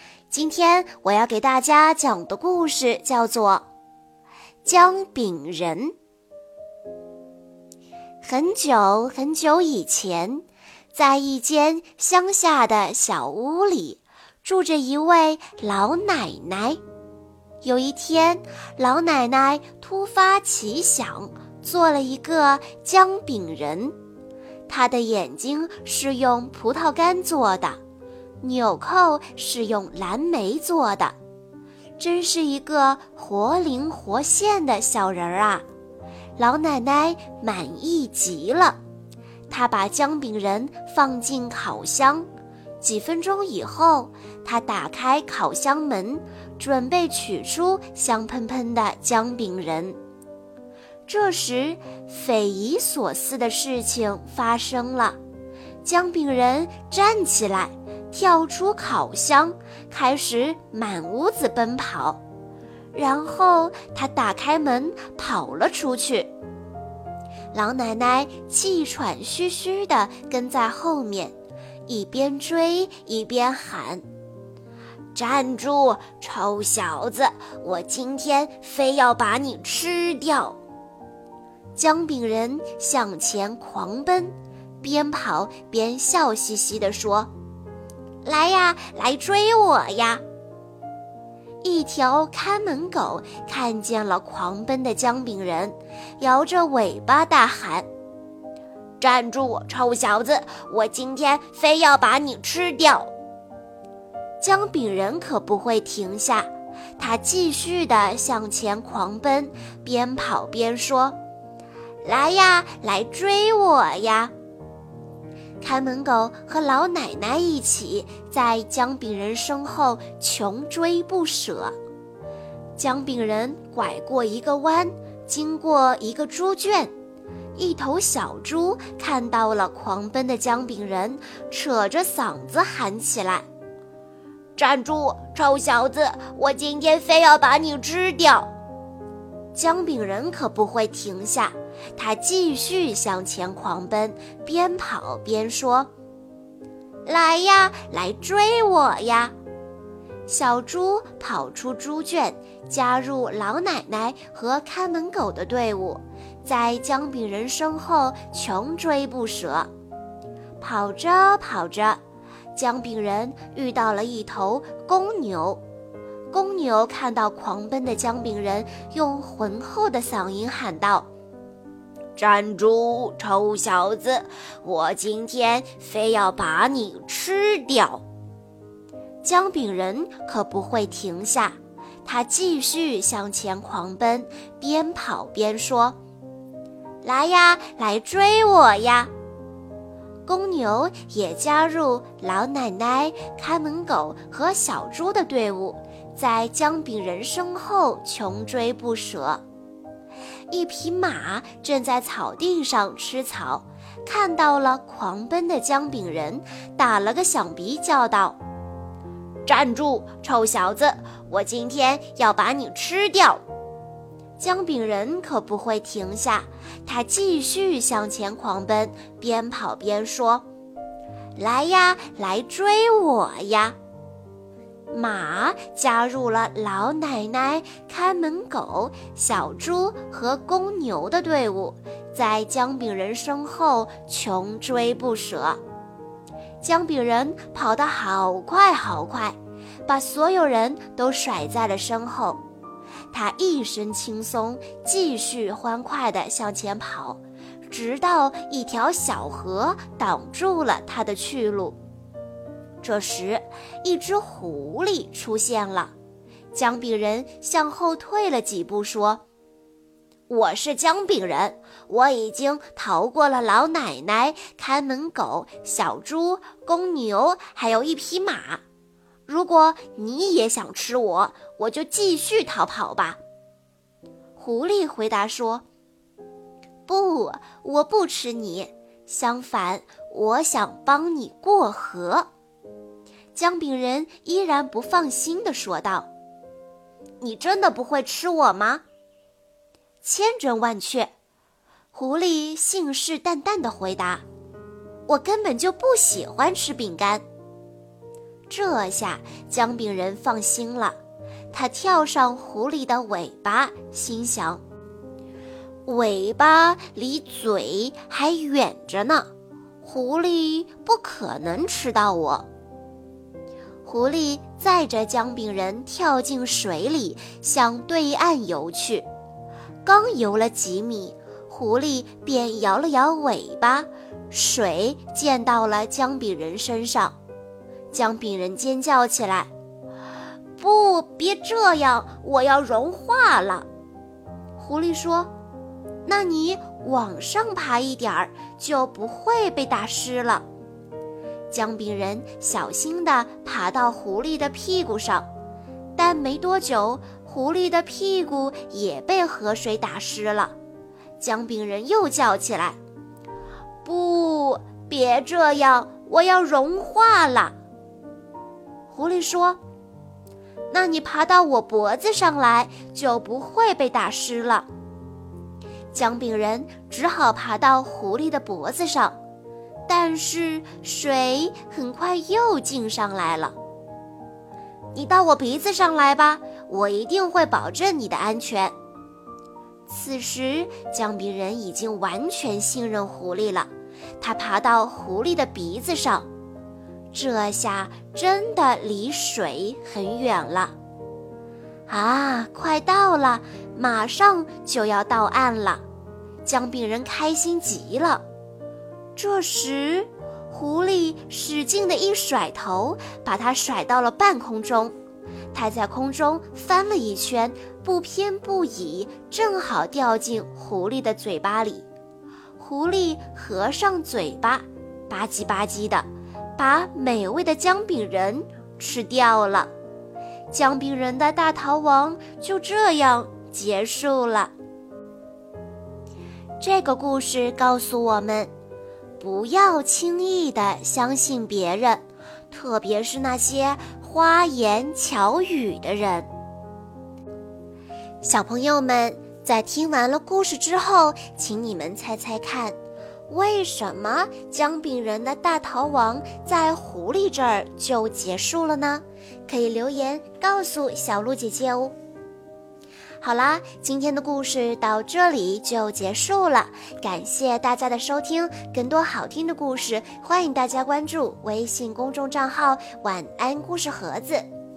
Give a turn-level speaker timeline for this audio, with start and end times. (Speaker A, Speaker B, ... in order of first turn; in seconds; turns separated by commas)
Speaker A: 0.3-3.6, Speaker A: 4.6-5.9, Speaker A: 8.2-16.8, Speaker A: 17.6-23.9, Speaker A: 24.7-27.8, Speaker A: 28.4-31.1, Speaker A: 32.0-35.6, Speaker A: 36.4-38.8, Speaker A: 39.5-42.3, Speaker A: 42.8-50.0, Speaker A: 51.1-55.2, Speaker A: 55.8-62.2, Speaker A: 62.9-66.3, Speaker A: 67.5-71.3, Speaker A: 71.9-74.0, Speaker A: 75.1-80.6, Speaker A: 81.8-87.3, Speaker A: 88.2-90.2, Speaker A: 91.6-97.8, Speaker A: 99.0-103.1, Speaker A: 104.4-111.2, Speaker A: 112.0-114.3, Speaker A: 115.6-121.7, Speaker A: 122.8-126.9, Speaker A: 127.5-133.4, Speaker A: 134.6-138.5, Speaker A: 139.5-145.9, Speaker A: 147.1-149.3, Speaker A: 150.3-159.7, Speaker A: 160.6-162.0, Speaker A: 162.5-165.6, Speaker A: 166.3-171.1, Speaker A: 172.2-178.0, Speaker A: 179.2-186.0, Speaker A: 187.0-189.1, Speaker A: 190.2-199.4, Speaker A: 200.5-208.4, Speaker A: 209.4-213.4, Speaker A: 214.4-220.4, Speaker A: 221.4-223.8, Speaker A: 224.9-235.6, Speaker A: 236.6-242.4, Speaker A: 243.1-251.8, Speaker A: 252.8-255.9, Speaker A: 256.5-259.2, Speaker A: 260.3-268.6, Speaker A: 269.3-273.2, Speaker A: 274.4-275.6, Speaker A: 276.9-282.3, Speaker A: 283.3-286.1, Speaker A: 287.2-288.8, Speaker A: 290.0-291.1, Speaker A: 291.9-294.2, Speaker A: 295.1-297.2, Speaker A: 298.5-300.9, Speaker A: 301.5-304.6, Speaker A: 305.9-309.3, Speaker A: 309.8-312.4, Speaker A: 313.8-319.1, Speaker A: 319.8-327.1, Speaker A: 327.9-329.5, Speaker A: 330.6-333.6, Speaker A: 334.6-335.3, Speaker A: 336.0-340.4, Speaker A: 341.5-345.3, Speaker A: 345.9-350.5, Speaker A: 351.2-352.8, Speaker A: 353.8-357.5, Speaker A: 358.9-359.6, Speaker A: 360.7-364.7, Speaker A: 365.9-369.1, Speaker A: 369.9-373.5, Speaker A: 374.9-378.7, Speaker A: 379.9-383.7, Speaker A: 384.2-386.3, Speaker A: 387.1-390.7, Speaker A: 391.9-395.8, Speaker A: 396.4-398.2, Speaker A: 399.1-404.9, Speaker A: 405.5-411.9, Speaker A: 412.6-419.7, Speaker A: 420.5-424.5, Speaker A: 426.6-428.5, Speaker A: 429.2-436.3, Speaker A: 438.2-442.8, Speaker A: 443.3-451.9, Speaker A: 453.2-464.5